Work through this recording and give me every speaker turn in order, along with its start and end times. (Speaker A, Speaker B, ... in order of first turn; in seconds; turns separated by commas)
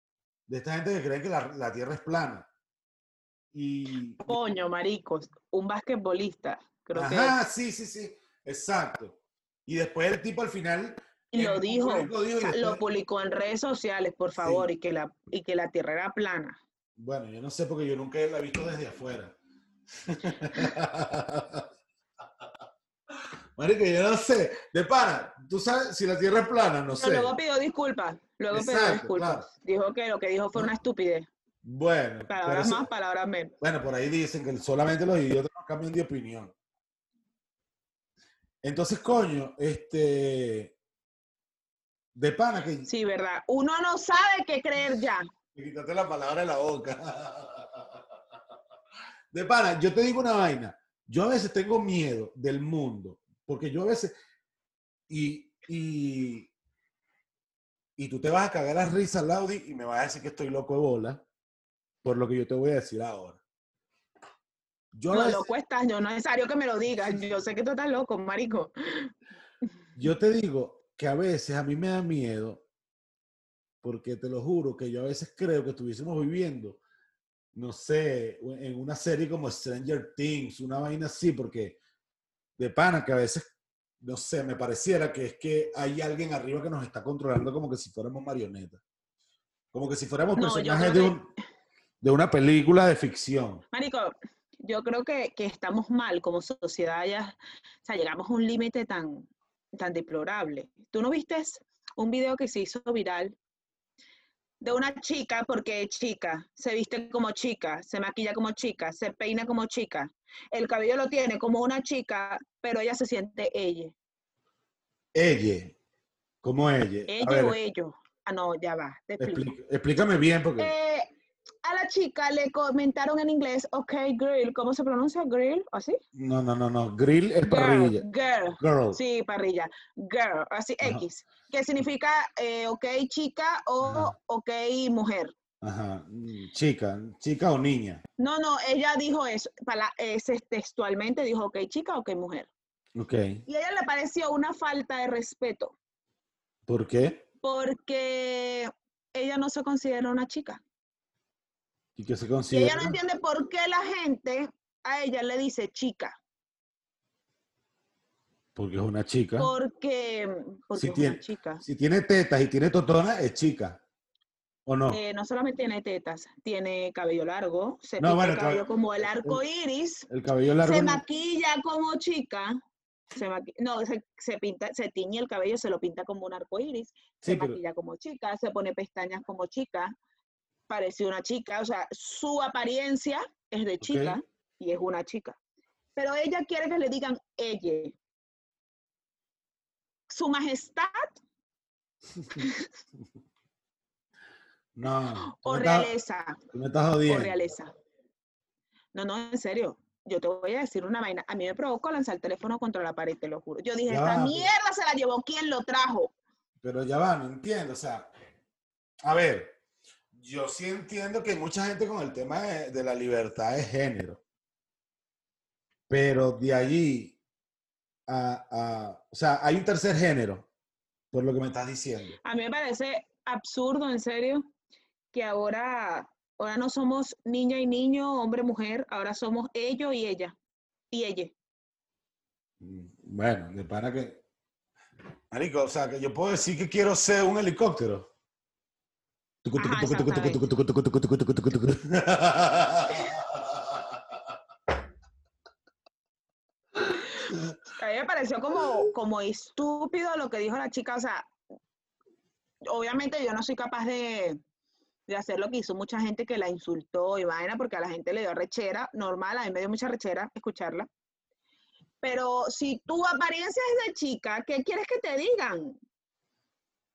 Speaker A: 0.5-2.5, Speaker A: 3.5-4.4, Speaker B: 4.2-7.3, Speaker A: 6.9-12.8, Speaker B: 11.3-16.6, Speaker A: 14.4-14.7, Speaker A: 16.9-19.4, Speaker A: 19.9-21.6, Speaker A: 23.6-27.3, Speaker B: 27.0-31.3, Speaker A: 28.5-29.5, Speaker A: 31.6-32.9, Speaker B: 32.3-33.5, Speaker A: 33.6-36.5, Speaker A: 38.6-40.7, Speaker A: 42.1-42.9, Speaker B: 42.9-45.3, Speaker A: 45.5-48.0, Speaker A: 49.3-54.1, Speaker A: 55.1-56.5, Speaker A: 58.0-61.2, Speaker A: 62.0-63.4, Speaker A: 64.9-65.5, Speaker B: 65.1-69.1, Speaker A: 70.0-72.6, Speaker A: 73.8-76.8, Speaker A: 77.5-81.8, Speaker A: 82.6-83.5, Speaker A: 84.0-88.8, Speaker A: 89.7-91.3, Speaker B: 90.3-91.2, Speaker A: 92.0-93.6, Speaker B: 93.7-103.3, Speaker B: 104.6-113.9, Speaker A: 115.1-115.7, Speaker A: 116.4-117.5, Speaker B: 117.1-119.5, Speaker A: 119.2-120.7, Speaker B: 120.6-121.1, Speaker B: 121.6-126.0, Speaker A: 126.1-128.0, Speaker B: 127.4-135.3, Speaker A: 128.6-129.0, Speaker A: 133.8-134.1, Speaker A: 135.6-138.0, Speaker B: 138.2-142.5, Speaker A: 142.9-143.4, Speaker B: 143.4-145.7, Speaker A: 146.7-147.2, Speaker B: 147.4-150.6, Speaker A: 151.9-153.0, Speaker B: 152.5-156.2, Speaker A: 158.5-159.5, Speaker B: 159.4-161.6, Speaker A: 160.8-163.8, Speaker A: 164.7-165.0, Speaker B: 164.9-170.1, Speaker A: 168.0-169.4, Speaker A: 170.1-171.0, Speaker B: 170.6-172.6, Speaker B: 173.1-179.9, Speaker A: 177.2-177.6, Speaker B: 180.7-185.4, Speaker A: 183.8-184.2, Speaker B: 185.9-187.9, Speaker B: 190.1-191.2, Speaker B: 192.3-192.6, Speaker A: 194.7-195.9, Speaker B: 195.2-196.4, Speaker A: 196.5-197.3, Speaker B: 197.1-197.7, Speaker B: 198.9-206.1, Speaker A: 203.9-204.5, Speaker A: 206.6-208.1, Speaker A: 209.0-209.6, Speaker A: 210.1-214.2, Speaker A: 215.9-217.2, Speaker A: 218.1-220.4, Speaker A: 221.1-222.2, Speaker B: 222.2-224.4, Speaker B: 225.1-230.3, Speaker B: 230.9-231.3, Speaker A: 232.6-234.2, Speaker A: 235.3-238.1, Speaker A: 239.4-244.2, Speaker B: 239.6-240.4, Speaker A: 246.9-247.4, Speaker B: 247.8-251.3, Speaker B: 252.6-254.4, Speaker B: 255.1-260.9, Speaker B: 262.0-265.8